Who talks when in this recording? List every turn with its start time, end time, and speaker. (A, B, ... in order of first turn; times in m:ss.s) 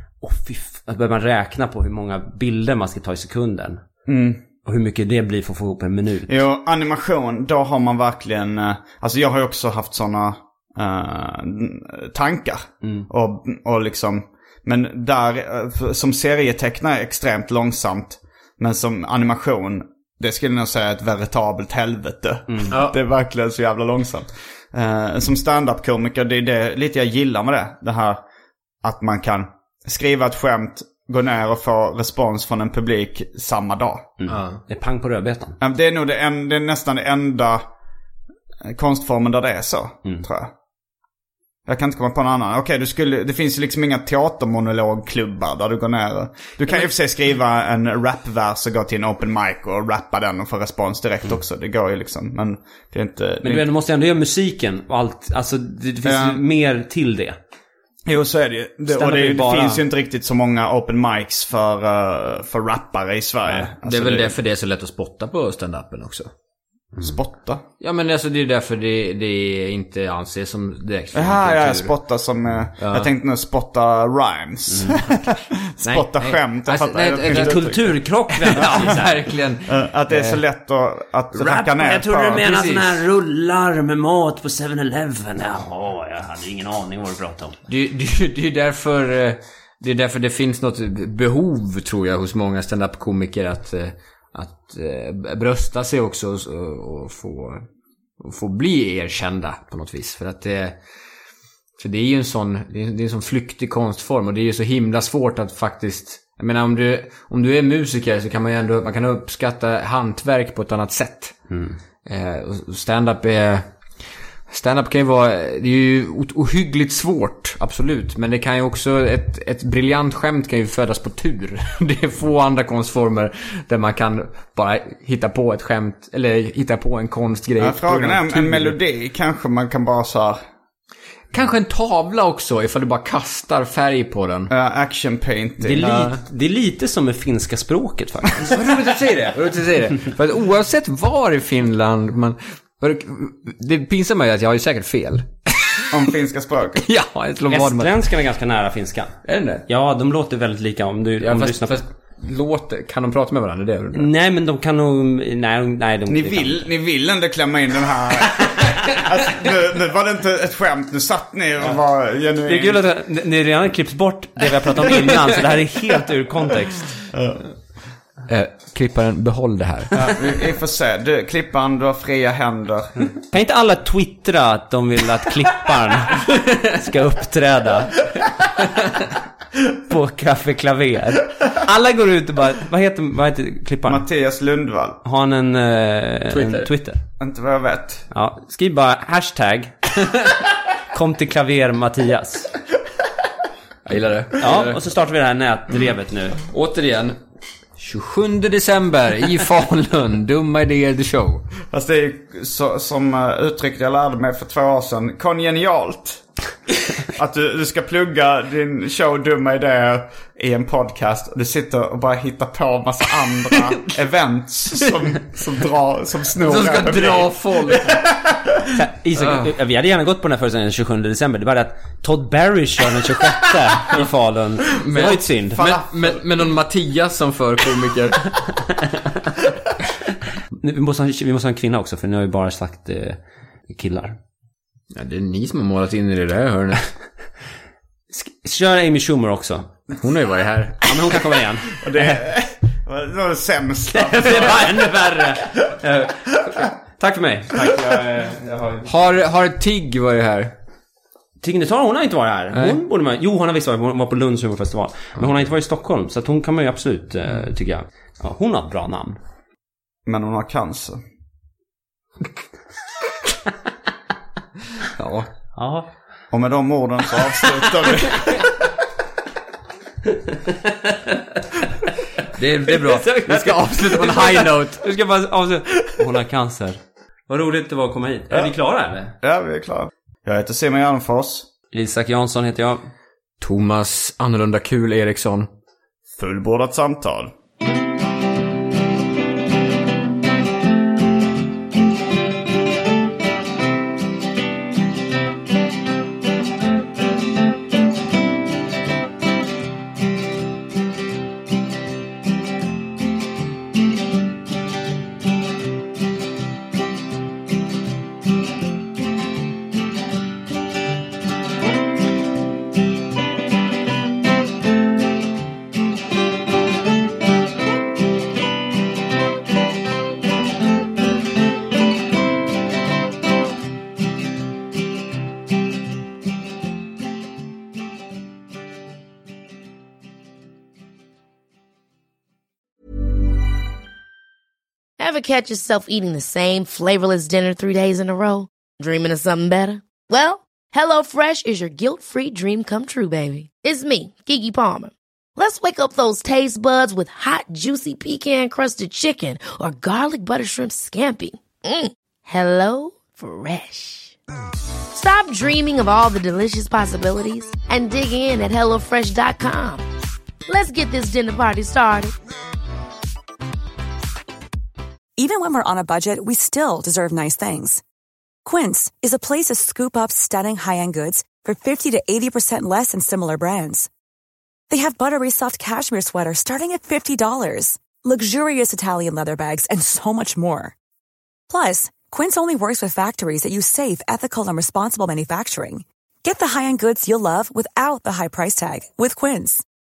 0:00.2-0:03.8 A
0:04.1-0:04.4 B
0:04.6-0:06.4 A
0:06.3-0:28.2 B
0:22.5-0:22.8 A
0:22.7-0:23.0 C
0:28.8-0:34.1 B
0:34.2-0:35.6 A
0:34.3-0:34.6 C
0:35.6-0:37.6 B
0:38.7-0:40.5 B
0:41.7-0:53.7 B
0:53.4-0:57.4 A
0:56.0-0:56.4 B
0:58.1-1:04.4 B
0:58.9-0:59.8 A
1:03.5-1:06.3 C
1:07.0-1:07.6 B
1:07.8-1:11.9 C
1:11.1-1:18.0 B
1:12.8-1:13.1 C
1:14.7-1:15.0 A
1:15.8-1:17.8 C
1:17.3-1:19.3 A
1:18.3-1:20.4 C
1:18.6-1:18.9 B
1:19.7-1:22.4 B
1:21.3-1:27.6 A
1:22.4-1:22.9 C
1:27.7-1:37.6 C
1:38.2-1:40.8 C
1:41.8-1:51.5 C
1:51.5-1:51.8 A
1:52.0-1:53.7 C
1:54.5-2:08.8 C
2:07.6-2:10.4 B
2:11.3-2:14.5 C
2:14.5-2:16.1 B
2:15.6-2:18.6 A
2:15.8-2:16.2 C
2:18.4-2:25.9 C
2:25.9-2:26.9 B
2:26.8-2:28.1 C
2:27.5-2:31.8 A
2:29.3-2:29.6 C
2:31.2-2:34.1 C
2:33.9-2:36.7 A
2:36.1-2:42.8 B
2:42.4-2:46.9 A
2:47.1-2:47.4 B
2:48.3-2:49.9 C
2:49.9-2:53.1 B
2:53.3-2:58.1 A
2:59.8-3:04.0 A
3:03.9-3:05.0 B
3:05.0-3:07.0 A
3:06.3-3:06.7 C
3:07.2-3:08.1 B
3:08.1-3:09.9 A
3:10.9-3:12.5 A
3:13.9-3:14.8 C
3:14.4-3:16.4 A
3:16.4-3:17.2 C
3:17.8-3:21.5 C
3:21.7-3:26.2 B
3:27.1-3:38.6 B
3:36.4-3:38.0 C
3:38.8-3:45.8 A
3:39.2-3:39.5 C
3:44.8-3:48.3 C
3:50.6-3:54.2 A
3:54.9-3:56.8 C
3:58.1-3:59.7 A
4:00.0-4:01.0 C
4:00.8-4:01.8 A
4:01.8-4:05.1 B
4:03.9-4:08.9 A
4:07.6-4:07.9 B
4:08.8-4:10.5 C
4:11.4-4:19.2 A
4:20.1-4:21.0 B
4:25.0-4:25.3 C
4:25.6-4:25.9 A
4:26.3-4:28.5 B
4:30.5-4:31.2 A
4:32.4-4:34.8 C
4:32.7-4:39.1 A
4:39.2-4:41.5 B
4:41.7-4:42.8 A
4:43.4-4:45.5 C
4:46.2-4:47.3 B
5:35.0-5:54.2 D
5:54.9-5:59.8 D
6:00.5-6:02.2 D
6:05.2-6:07.8 E
6:08.4-6:13.9 E
6:14.7-6:20.8 E
6:21.5-6:29.6 E